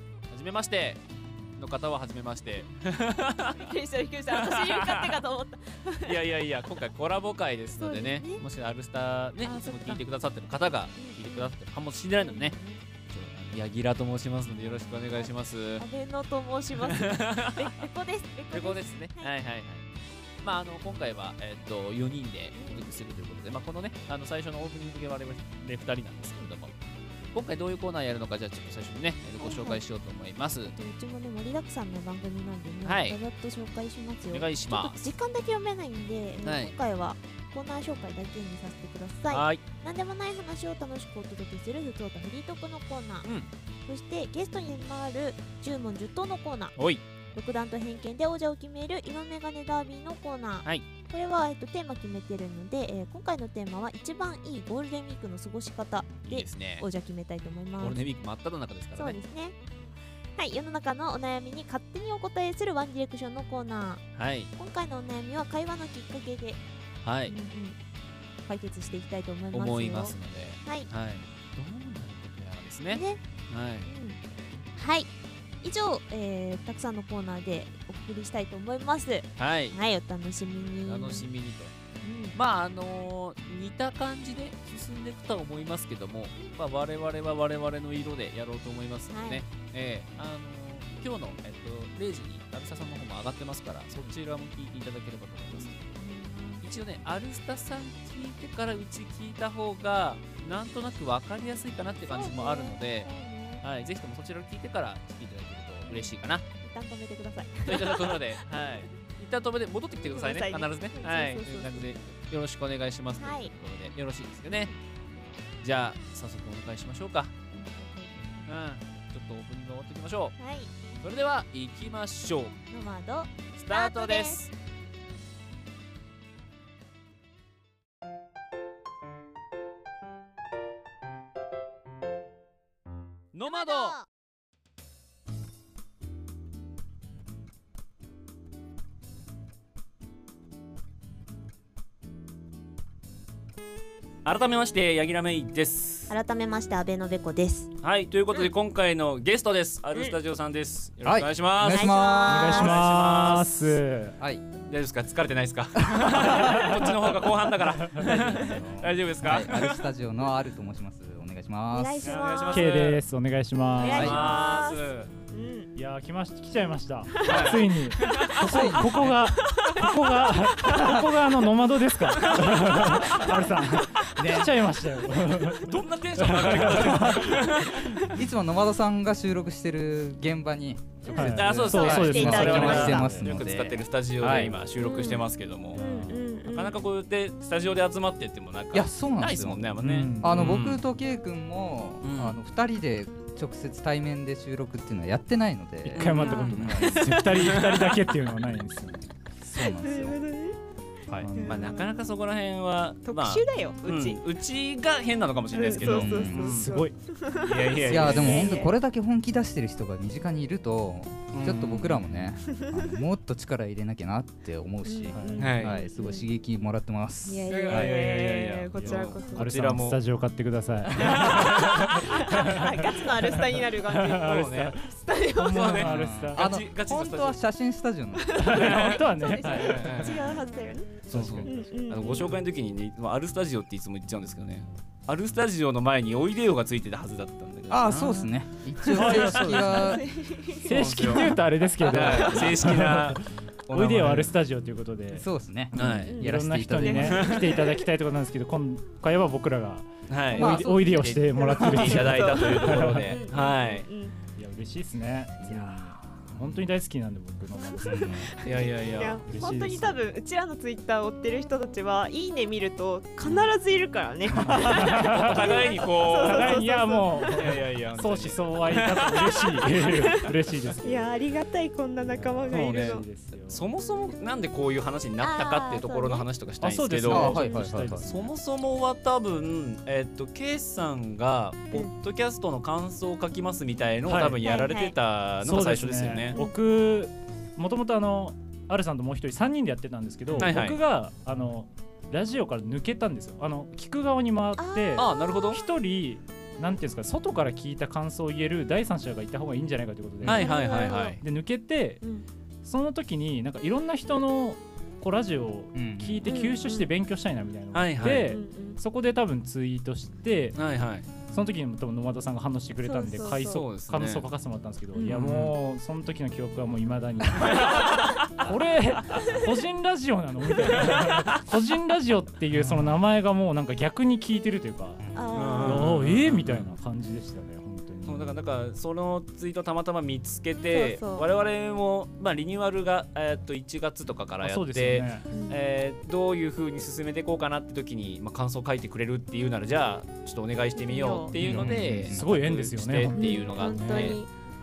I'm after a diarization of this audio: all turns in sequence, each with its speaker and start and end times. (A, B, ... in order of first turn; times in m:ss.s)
0:00.3-0:01.0 A
0:01.6-0:03.7 A
0:03.6-0:06.2 B
0:04.3-0:05.2 A
0:06.0-0:15.8 A
0:07.8-0:08.4 B
0:09.4-0:10.0 B
0:11.0-0:11.5 B
0:12.2-0:12.8 B
0:14.7-0:19.3 B
0:16.8-0:17.7 A
0:18.5-0:19.9 A
0:20.4-0:26.7 A
0:22.6-0:22.9 B
0:27.3-0:30.8 A
0:29.4-0:29.8 B
0:30.8-0:43.3 B
0:32.8-0:33.2 A
0:34.3-0:35.1 A
0:36.4-0:36.7 A
0:39.3-0:39.6 A
0:43.9-0:46.8 B
0:46.8-0:47.0 A
0:47.3-0:58.0 B
0:56.2-0:56.8 A
0:57.8-0:59.2 A
0:59.0-0:59.6 B
1:00.4-1:04.0 B
1:04.2-1:04.5 A
1:04.6-1:06.6 B
1:07.0-1:07.4 A
1:07.3-1:07.8 B
1:08.5-1:10.9 B
1:09.5-1:13.9 A
1:12.9-1:13.2 B
1:13.9-1:14.2 B
1:14.8-1:15.1 B
1:15.6-1:21.3 B
1:19.4-1:19.8 A
1:20.9-1:21.7 A
1:22.0-1:22.4 B
1:22.3-1:35.7 A
1:29.1-1:29.4 B
1:35.6-1:36.6 B
1:36.6-1:43.1 A
1:42.0-1:43.6 B
1:43.6-1:46.4 A
1:45.9-1:48.4 B
1:47.7-1:54.7 A
1:50.1-1:52.0 B
1:53.2-1:53.5 B
1:54.5-1:54.7 B
1:55.6-1:57.3 A
1:57.5-1:58.5 B
1:58.5-2:00.4 A
2:00.4-2:00.7 B
2:01.0-2:02.6 A
2:02.7-2:04.4 B
2:03.6-2:04.5 A
2:13.3-2:14.0 A
2:13.5-2:14.1 B
2:24.2-2:26.2 A
2:26.1-2:27.7 B
2:27.8-2:33.8 A
2:31.0-2:32.9 C
2:31.6-2:32.7 B
2:32.2-2:34.2 D
2:34.2-2:34.4 C
2:34.7-2:39.9 A
2:35.8-2:36.7 C
2:36.3-2:36.8 D
2:37.8-2:38.2 D
2:38.0-2:42.2 C
2:41.7-2:42.7 B
2:42.0-2:43.0 A
2:42.5-2:44.3 D
2:43.7-2:45.7 B
2:43.8-2:45.1 A
2:43.8-2:44.4 C
2:45.7-2:58.1 D
2:47.2-2:48.9 A
2:47.2-2:47.6 C
2:48.3-2:49.4 C
2:50.7-2:51.0 C
2:52.2-2:53.0 A
2:54.2-2:54.6 C
2:55.5-2:58.0 A
2:58.0-3:04.6 C
3:01.0-3:03.0 B
3:01.1-3:05.8 A
3:01.1-3:03.3 D
3:04.8-3:06.8 B
3:05.7-3:06.3 D
3:06.5-3:10.8 A
3:08.7-3:17.1 C
3:09.8-3:10.6 D
3:12.0-3:12.4 A
3:15.9-3:18.0 A
3:16.0-3:19.1 D
3:16.0-3:17.2 B
3:19.4-3:20.2 C
3:19.6-3:20.6 B
3:21.2-3:21.8 D
3:21.4-3:21.9 B
3:21.4-3:26.7 A
3:23.0-3:24.2 B
3:25.5-3:28.7 B
3:25.8-3:26.6 C
3:26.3-3:26.9 D
3:27.4-3:28.6 A
3:27.8-3:38.0 C
3:31.3-3:32.1 A
3:34.8-3:36.2 B
3:35.1-3:35.5 D
3:35.4-3:35.8 A
3:37.3-3:39.5 B
3:37.5-3:40.0 A
3:38.7-3:44.9 D
3:41.0-3:42.4 A
3:41.0-3:45.8 B
3:44.1-3:44.8 A
3:45.4-3:47.4 A
3:45.4-3:46.5 D
3:45.8-3:48.8 C
3:48.2-3:52.4 B
3:48.4-3:50.4 D
3:48.5-3:50.3 A
3:49.4-3:50.0 C
3:51.1-3:51.8 D
3:51.1-3:58.3 A
3:57.7-4:00.1 C
3:58.8-4:00.0 A
3:58.9-3:59.8 D
3:59.2-4:01.2 B
4:00.5-4:03.2 A
4:00.6-4:13.2 D
4:01.9-4:02.6 B
4:03.7-4:04.3 C
4:05.1-4:07.3 C
4:05.8-4:06.2 A
4:06.1-4:07.8 B
4:07.2-4:07.4 A
4:10.1-4:13.9 A
4:10.3-4:11.8 C
4:11.3-4:14.1 B
4:14.4-4:18.3 D
4:15.5-4:15.8 B
4:17.8-4:18.3 C
4:17.9-4:27.5 B
4:18.4-4:19.2 A
4:19.2-4:20.0 D
4:24.4-4:26.6 A
4:24.4-4:31.1 D
4:27.3-4:29.4 A
4:29.1-4:33.1 B
4:32.1-4:33.6 D
4:32.5-4:37.4 A
4:35.2-4:36.3 B
4:36.6-4:38.3 D
4:37.1-4:38.1 C
4:37.2-4:37.7 B
4:38.0-4:46.4 A
4:44.0-4:44.5 D
4:44.4-4:45.0 B
4:45.4-5:00.5 D
4:50.4-4:50.8 A
4:54.6-4:55.2 B
4:55.0-4:55.6 A
5:00.2-5:01.2 A
5:00.3-5:01.2 B
5:01.2-5:02.0 D
5:02.6-5:10.6 D
5:05.7-5:06.4 C
5:06.2-5:06.9 B
5:07.7-5:08.3 A
5:08.2-5:08.8 B
5:10.6-5:11.1 A
5:11.3-5:25.1 D
5:12.8-5:13.6 B
5:13.2-5:14.3 A
5:14.9-5:15.2 B
5:15.1-5:15.5 A
5:17.7-5:18.2 A
5:19.2-5:19.5 B
5:20.7-5:21.0 B
5:20.9-5:21.2 A
5:22.6-5:22.9 A
5:25.0-5:25.3 C
5:25.2-5:25.9 B
5:25.3-5:26.7 A
5:25.6-5:28.4 D
5:28.1-5:44.2 A
5:30.7-5:31.3 B
5:34.4-5:35.2 D
5:35.3-5:35.6 B
5:40.8-5:41.3 B
5:41.4-5:42.3 C
5:41.4-5:44.2 D
5:43.1-5:44.3 B